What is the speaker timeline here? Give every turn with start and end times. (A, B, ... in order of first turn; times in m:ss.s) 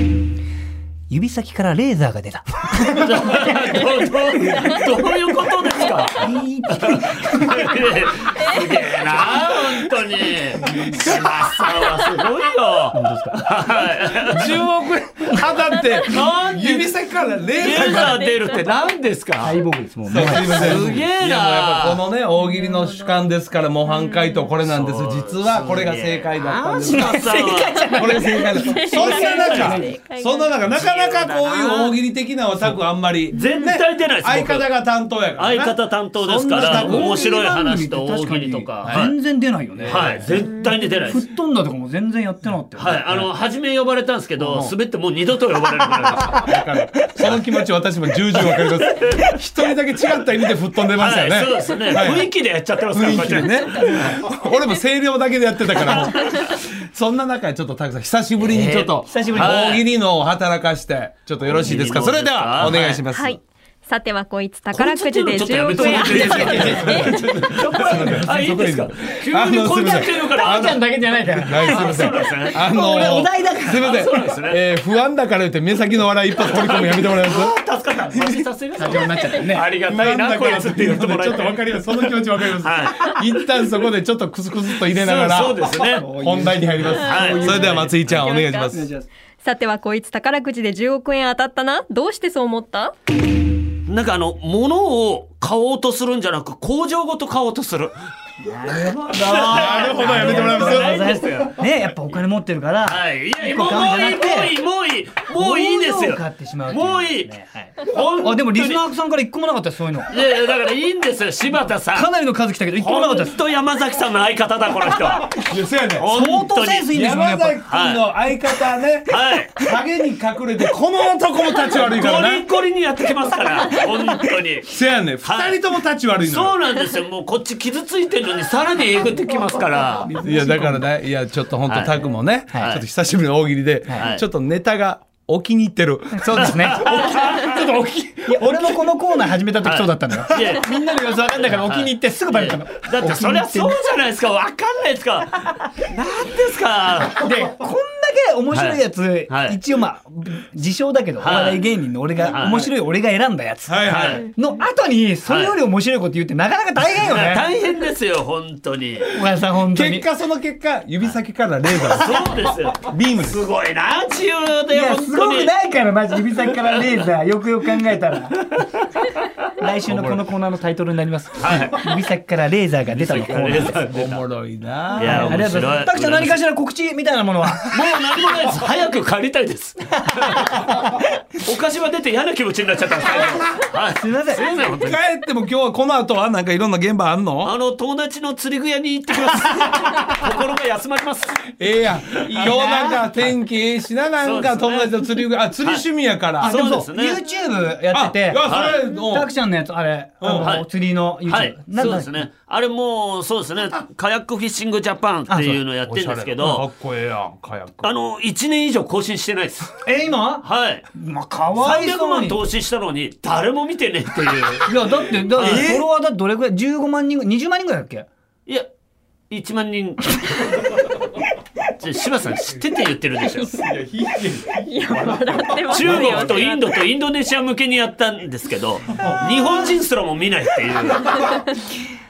0:01.1-0:03.7 A
0:02.9-0:14.6 B
0:06.2-0:07.8 A
0:08.3-0:08.8 C
0:10.6-0:11.1 A
0:10.6-0:11.2 D
0:12.9-0:13.5 A
0:14.3-0:18.7 D
0:15.7-0:16.2 C
0:16.0-0:16.9 B
0:17.6-0:18.8 C
0:17.6-0:19.6 B
0:19.4-0:21.0 A
0:20.1-0:37.2 D
0:20.2-0:22.0 B
0:22.4-0:23.2 C
0:23.9-0:24.5 C
0:24.6-0:27.9 B
0:26.8-0:30.0 A
0:27.8-0:30.5 C
0:29.1-0:29.8 B
0:30.7-0:32.0 B
0:33.3-0:34.7 B
0:35.4-0:39.1 B
0:36.6-0:40.3 A
0:38.8-0:39.1 D
0:39.7-0:40.4 D
0:39.9-0:41.2 B
0:41.1-0:43.3 A
0:42.8-0:47.4 B
0:44.4-0:44.7 D
0:46.2-0:52.3 D
0:48.4-0:49.3 B
0:51.0-0:54.2 B
0:52.9-1:03.4 D
0:55.8-0:56.3 B
0:58.4-0:59.9 B
0:59.1-0:59.6 A
1:01.5-1:03.0 B
1:03.1-1:07.3 C
1:04.7-1:12.8 B
1:05.7-1:10.8 D
1:06.2-1:07.2 A
1:10.3-1:14.1 A
1:11.4-1:17.6 D
1:13.8-1:14.6 B
1:16.4-1:23.2 B
1:18.8-1:19.7 A
1:18.9-1:19.6 C
1:19.8-1:28.9 D
1:24.9-1:26.1 B
1:25.8-1:28.0 A
1:26.9-1:28.1 B
1:27.0-1:28.8 C
1:28.7-1:29.1 A
1:29.4-1:33.0 C
1:33.9-1:38.0 B
1:38.4-1:44.6 A
1:39.2-1:41.2 D
1:39.2-1:41.6 B
1:42.8-1:48.8 B
1:45.3-1:50.1 A
1:50.1-1:52.1 B
1:51.9-1:53.4 A
1:52.8-1:55.4 B
1:55.3-1:56.1 D
1:56.0-1:56.9 B
1:56.1-1:57.6 A
1:56.9-2:02.4 D
1:57.6-1:58.1 B
1:59.1-1:59.6 B
2:01.7-2:04.7 B
2:04.7-2:06.6 D
2:05.2-2:05.6 B
2:06.2-2:10.1 B
2:09.3-2:10.9 A
2:10.2-2:18.6 D
2:11.7-2:11.9 B
2:12.5-2:12.8 A
2:13.9-2:14.2 B
2:16.1-2:23.8 A
2:16.4-2:17.7 B
2:19.6-2:20.7 B
2:21.4-2:27.2 B
2:27.1-2:37.5 A
2:28.5-2:29.6 B
2:31.2-2:31.6 B
2:32.2-2:32.6 B
2:32.4-2:32.7 D
2:33.7-2:34.2 D
2:33.9-2:34.2 B
2:35.3-2:35.6 B
2:37.0-2:39.1 B
2:39.1-2:40.1 A
2:39.6-2:42.2 D
2:41.9-2:45.5 B
2:42.8-2:43.4 D
2:44.7-2:48.6 A
2:49.6-2:53.8 A
2:49.9-2:50.2 D
2:51.4-2:51.9 B
2:52.9-2:54.2 B
2:53.8-2:55.5 D
2:55.0-2:56.4 B
2:55.0-2:57.9 A
2:57.6-3:05.0 B
3:00.1-3:01.0 A
3:04.0-3:04.5 A
3:04.8-3:07.6 D
3:07.4-3:11.5 B
3:11.6-3:16.6 D
3:12.4-3:13.1 A
3:14.2-3:15.8 B
3:16.4-3:22.3 A
3:16.4-3:17.2 B
3:17.9-3:19.3 D
3:18.4-3:18.8 B
3:20.2-3:20.5 D
3:20.3-3:20.7 B
3:21.3-3:26.7 B
3:25.3-3:25.6 A
3:25.8-3:27.9 D
3:27.8-3:29.8 B
3:29.8-3:32.4 A
3:30.4-3:30.9 B
3:31.6-3:34.7 B
3:34.6-3:38.1 A
3:35.3-3:35.7 B
3:35.4-3:35.9 D
3:39.3-3:40.7 B
3:41.7-3:43.5 B
3:43.5-3:46.5 D
3:44.7-3:46.8 C
3:45.7-3:51.2 B
3:51.2-3:51.4 C